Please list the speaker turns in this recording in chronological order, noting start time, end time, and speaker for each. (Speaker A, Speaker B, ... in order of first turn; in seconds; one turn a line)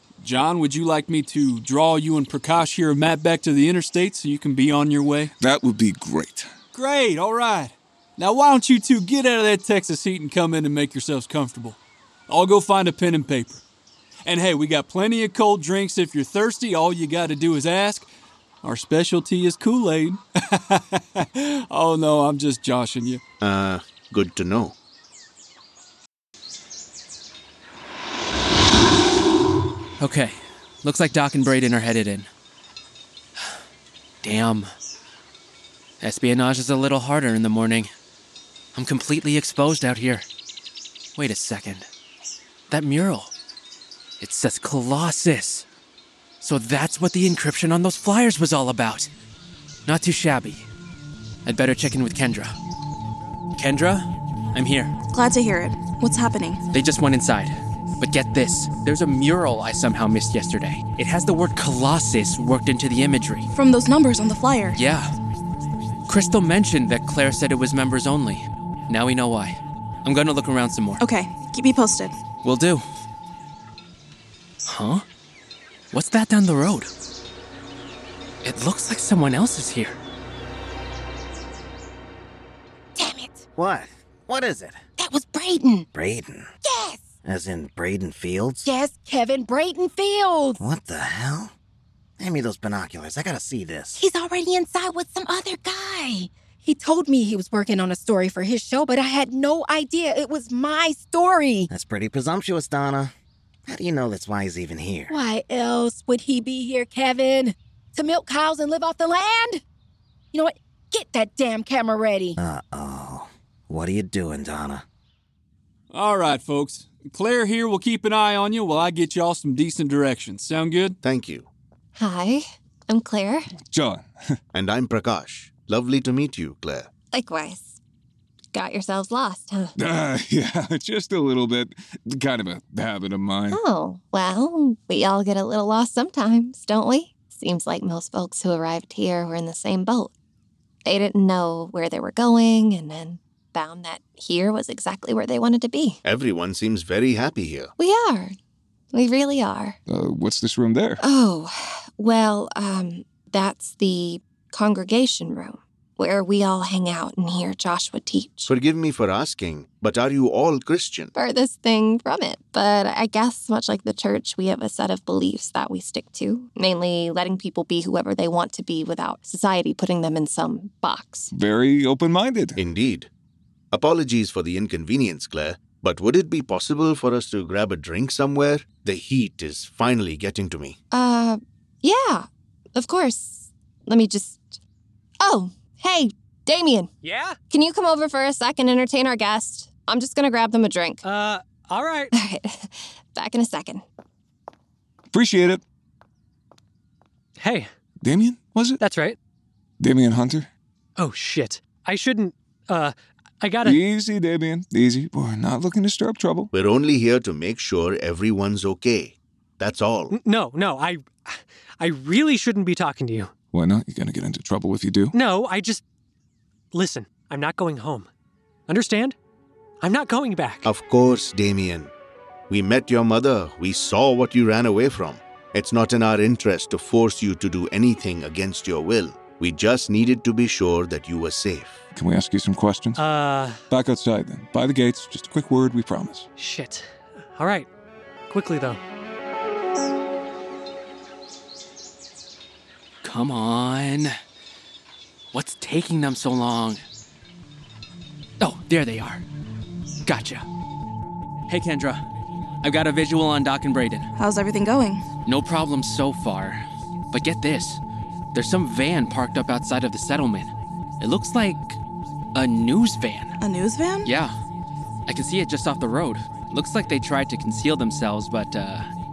Speaker A: 0.2-5.3
Speaker B: 5.4-6.5
Speaker A: 6.7-13.6
Speaker A: 14.2-18.1
Speaker A: 18.6-23.2
Speaker C: 23.4-24.7
Speaker D: 30.0-32.3
Speaker D: 34.2-34.7
Speaker D: 36.0-37.9
Speaker D: 38.7-40.3
Speaker D: 41.1-41.9
Speaker D: 42.7-43.3
Speaker D: 44.2-45.6
Speaker D: 46.4-49.1
Speaker D: 49.9-50.7
Speaker D: 51.4-52.5
Speaker D: 53.6-54.9
Speaker E: 55.1-56.6
Speaker D: 56.7-63.5
Speaker E: 63.5-64.8
Speaker D: 64.7-65.1
Speaker D: 66.1-71.0
Speaker E: 71.0-72.2
Speaker D: 72.4-72.8
Speaker D: 74.7-75.0
Speaker D: 75.9-76.9
Speaker D: 78.4-80.0
Speaker F: 83.0-83.5
Speaker G: 83.5-84.8
Speaker F: 85.0-85.9
Speaker G: 85.9-86.5
Speaker F: 86.6-87.0
Speaker G: 87.2-88.7
Speaker F: 88.6-90.6
Speaker G: 90.6-91.5
Speaker G: 92.2-94.0
Speaker F: 94.0-101.7
Speaker G: 101.7-103.1
Speaker G: 103.7-105.1
Speaker F: 105.1-109.6
Speaker F: 110.3-112.4
Speaker G: 112.4-114.8
Speaker A: 115.9-121.0
Speaker C: 121.0-121.5
Speaker H: 121.9-123.5
Speaker B: 123.6-124.3
Speaker C: 124.5-126.9
Speaker H: 127.1-127.8
Speaker H: 128.5-129.7
Speaker B: 129.8-133.6
Speaker H: 133.5-140.1
Speaker H: 140.8-146.0
Speaker C: 146.0-147.7
Speaker H: 147.8-148.3
Speaker H: 148.9-149.8
Speaker B: 149.9-151.0
Speaker H: 151.0-158.5
Speaker C: 158.5-161.1
Speaker H: 161.1-171.3
Speaker B: 171.3-172.6
Speaker C: 172.6-173.1
Speaker C: 173.7-180.8
Speaker H: 180.9-184.6
Speaker H: 185.2-186.9
Speaker I: 187.0-187.4
Speaker H: 187.5-191.0
Speaker I: 191.0-192.1
Speaker H: 192.1-193.8
Speaker B: 195.1-195.6
Speaker I: 197.4-197.7
Speaker B: 198.0-198.8
Speaker I: 198.8-199.2
Speaker B: 199.8-200.5
Speaker I: 201.0-203.8
Speaker B: 203.6-206.5
Speaker C: 206.5-210.1
Speaker I: 210.1-213.3
Speaker B: 213.5-215.1
Speaker I: 215.1-215.8
Speaker I: 216.7-218.1
Speaker I: 218.7-219.2
Speaker I: 219.8-220.7
Speaker C: 220.6-221.9
Speaker C: 222.5-231.9
Speaker B: 231.9-233.0
Speaker I: 232.9-233.6
Speaker B: 233.7-236.3
Speaker I: 236.4-237.7
Speaker I: 238.3-238.8
Speaker D: 243.0-244.2
Speaker D: 245.3-246.8
Speaker D: 248.4-249.2
Speaker D: 250.0-250.4
Speaker D: 251.5-252.0
Speaker D: 252.6-254.1
Speaker E: 254.2-255.0
Speaker D: 255.2-257.8
Speaker D: 258.3-261.8
Speaker D: 262.3-263.3
Speaker E: 263.4-264.1
Speaker D: 264.0-264.3
Speaker D: 265.1-268.9